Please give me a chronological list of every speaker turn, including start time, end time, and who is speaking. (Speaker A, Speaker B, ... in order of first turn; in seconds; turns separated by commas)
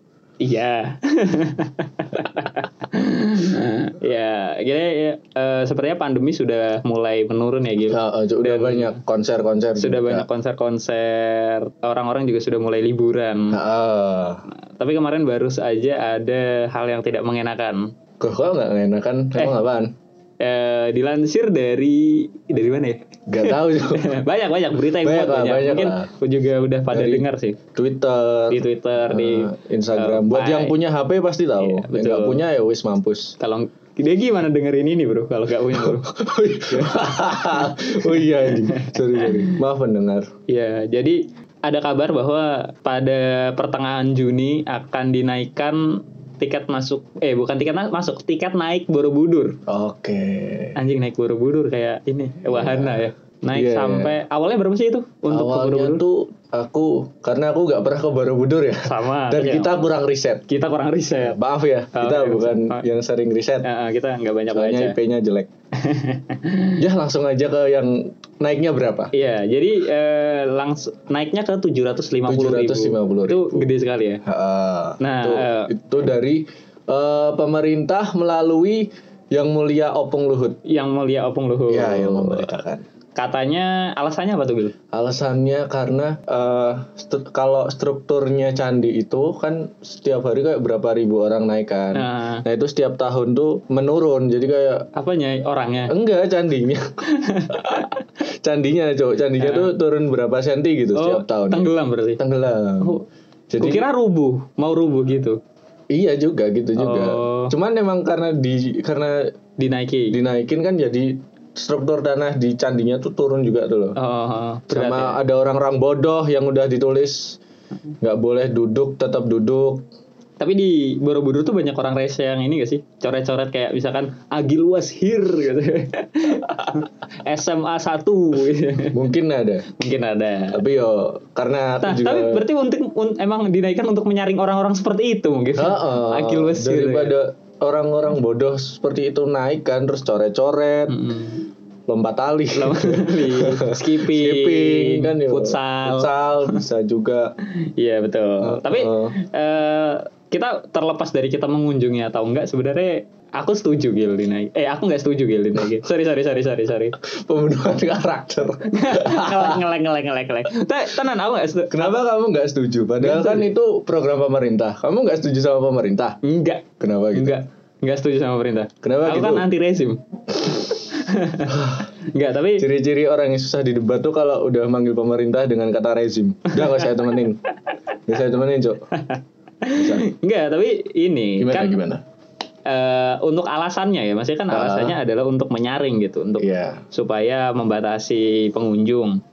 Speaker A: 0.4-9.0, Speaker B: 7.9-10.3, Speaker A: 9.8-13.6, Speaker B: 13.5-14.4, Speaker A: 14.8-17.9, Speaker B: 18.2-19.9, Speaker A: 20.4-27.6, Speaker B: 23.3-24.1, Speaker B: 24.9-26.1, Speaker B: 26.9-27.2, Speaker B: 27.8-33.4, Speaker A: 28.5-30.8, Speaker A: 31.6-32.5, Speaker A: 33.4-36.1, Speaker B: 35.7-40.3, Speaker A: 36.7-39.6, Speaker A: 40.5-49.6, Speaker B: 49.7-50.8, Speaker A: 50.8-56.0, Speaker B: 52.5-54.2, Speaker B: 55.3-60.4, Speaker A: 58.8-59.7, Speaker A: 60.5-61.4, Speaker B: 61.2-63.7, Speaker A: 61.9-62.8, Speaker A: 63.6-65.0, Speaker B: 64.5-65.5, Speaker A: 65.8-66.8, Speaker B: 66.8-69.1, Speaker A: 69.1-74.2, Speaker B: 72.2-73.7, Speaker B: 74.3-80.6, Speaker A: 75.0-75.7, Speaker A: 80.7-82.6, Speaker B: 81.7-82.8, Speaker A: 83.2-84.7, Speaker B: 84.9-94.9, Speaker A: 92.0-92.4, Speaker A: 95.0-95.9, Speaker B: 95.9-96.9, Speaker A: 97.1-98.0, Speaker B: 97.5-97.9, Speaker B: 98.4-103.9, Speaker A: 99.4-99.7, Speaker A: 101.0-102.2, Speaker A: 103.6-105.4, Speaker B: 105.9-109.3, Speaker A: 106.8-107.5, Speaker A: 109.6-110.2, Speaker B: 110.1-114.0, Speaker A: 114.0-115.2, Speaker B: 114.7-117.4, Speaker B: 118.0-119.8, Speaker A: 120.4-129.0, Speaker B: 128.9-129.7, Speaker A: 129.8-130.6, Speaker B: 130.5-132.4, Speaker A: 131.8-137.2, Speaker B: 135.6-141.0, Speaker A: 140.9-141.4, Speaker B: 141.9-147.3, Speaker A: 142.6-146.6, Speaker A: 147.8-157.0, Speaker B: 148.4-149.1, Speaker B: 157.0-159.6, Speaker A: 158.7-162.0, Speaker B: 161.7-166.2, Speaker A: 163.0-163.5, Speaker A: 166.2-171.6, Speaker B: 166.8-167.4, Speaker B: 168.8-169.5, Speaker B: 171.5-171.9, Speaker A: 172.1-172.7, Speaker B: 172.6-177.4, Speaker A: 176.6-177.1, Speaker B: 178.1-178.8, Speaker A: 179.0-181.8, Speaker B: 179.7-180.1, Speaker B: 181.4-182.0, Speaker A: 182.7-189.2, Speaker B: 184.5-185.0, Speaker B: 186.4-186.8